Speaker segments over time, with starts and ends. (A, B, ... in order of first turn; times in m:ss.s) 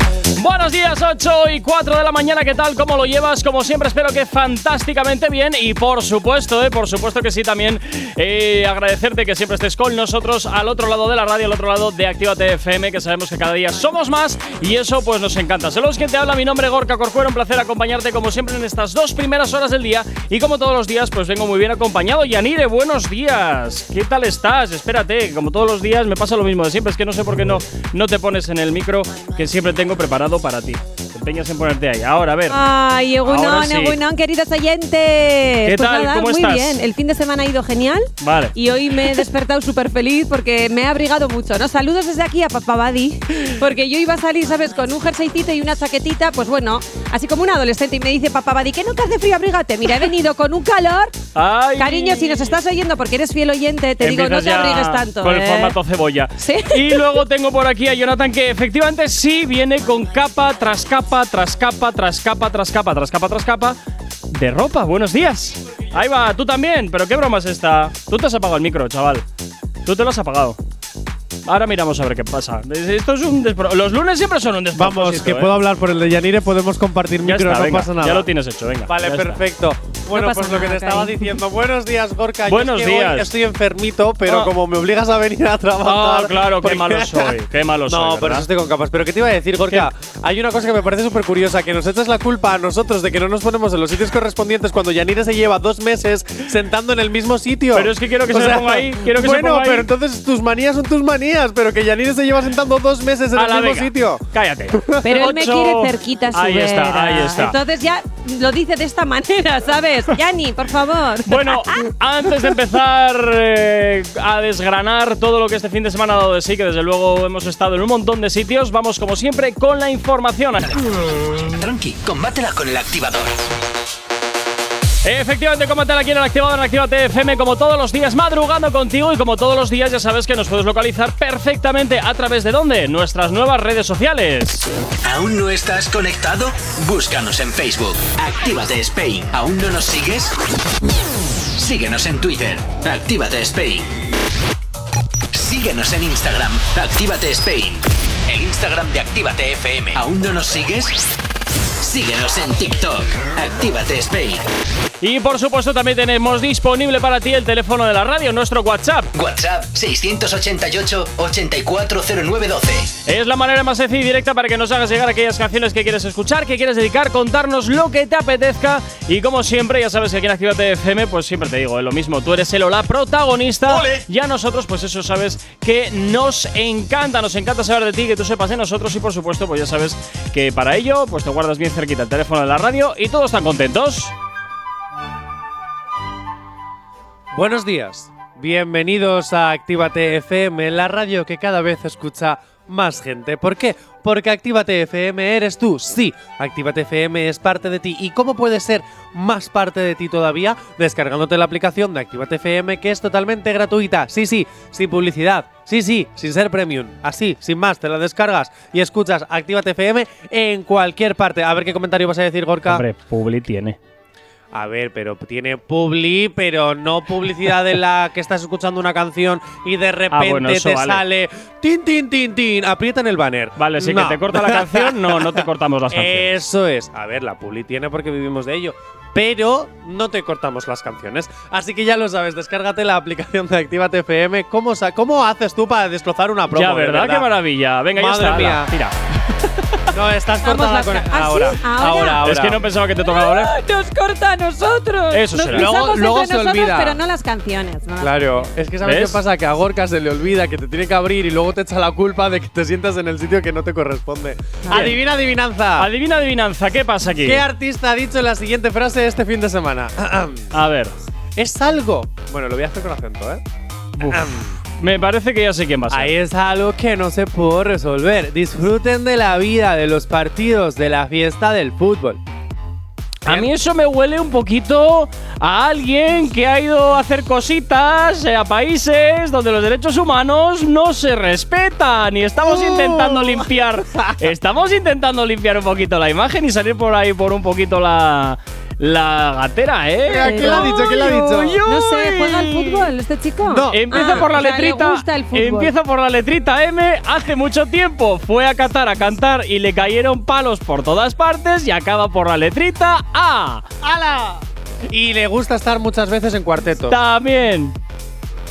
0:00.4-0:32.6 A
0:32.5-0:51.2 B
0:33.2-0:34.0 A
0:35.6-0:36.8 A
0:38.2-0:38.5 A
0:51.3-0:52.5 A
0:51.8-0:55.7 B
0:54.0-1:03.8 A
0:56.4-0:57.0 B
1:04.3-1:09.2 A
1:09.8-1:10.6 A
1:11.4-1:15.5 A
1:14.7-1:18.3 C
1:17.2-1:19.4 A
1:18.9-1:27.3 C
1:20.1-1:21.3 B
1:22.4-1:23.3 A
1:24.2-1:24.5 A
1:25.8-1:28.5 A
1:27.9-1:44.2 C
1:37.7-1:39.9 A
1:43.3-1:47.6 A
1:45.0-1:51.9 B
1:51.3-2:00.6 A
2:00.6-2:03.3 D
2:05.0-2:14.6 A
2:15.0-2:20.4 D
2:21.6-2:23.9 D
2:25.3-2:31.0 D
2:31.8-2:34.4 D
2:35.0-2:39.1 A
2:39.1-2:42.9 D
2:43.0-3:04.1 A
3:07.3-3:32.8 C
3:32.7-3:33.8 A
3:34.5-3:57.3 C
3:40.1-3:41.0 A
3:43.6-3:46.3 A
3:56.5-3:58.9 A
3:57.9-3:58.7 C
3:59.9-4:02.7 C
4:00.4-4:02.2 B
4:02.2-4:03.5 A
4:03.0-4:08.5 B
4:05.1-4:05.8 A
4:05.5-4:07.0 C
4:08.0-4:15.9 C
4:08.8-4:09.2 A
4:14.7-4:15.0 A
4:15.8-4:17.4 A
4:17.2-4:20.4 C
4:20.5-4:20.9 A
4:21.4-4:23.4 C
4:24.0-4:24.6 C
4:24.8-4:26.1 A
4:25.9-4:32.2 C
4:33.2-4:52.9 A
4:42.4-4:44.1 C
4:50.1-4:51.6 C
4:50.2-4:51.0 B
4:51.6-4:55.7 B
4:53.5-4:54.2 C
4:53.7-5:03.6 A
5:03.8-5:06.9 C
5:06.9-5:07.7 A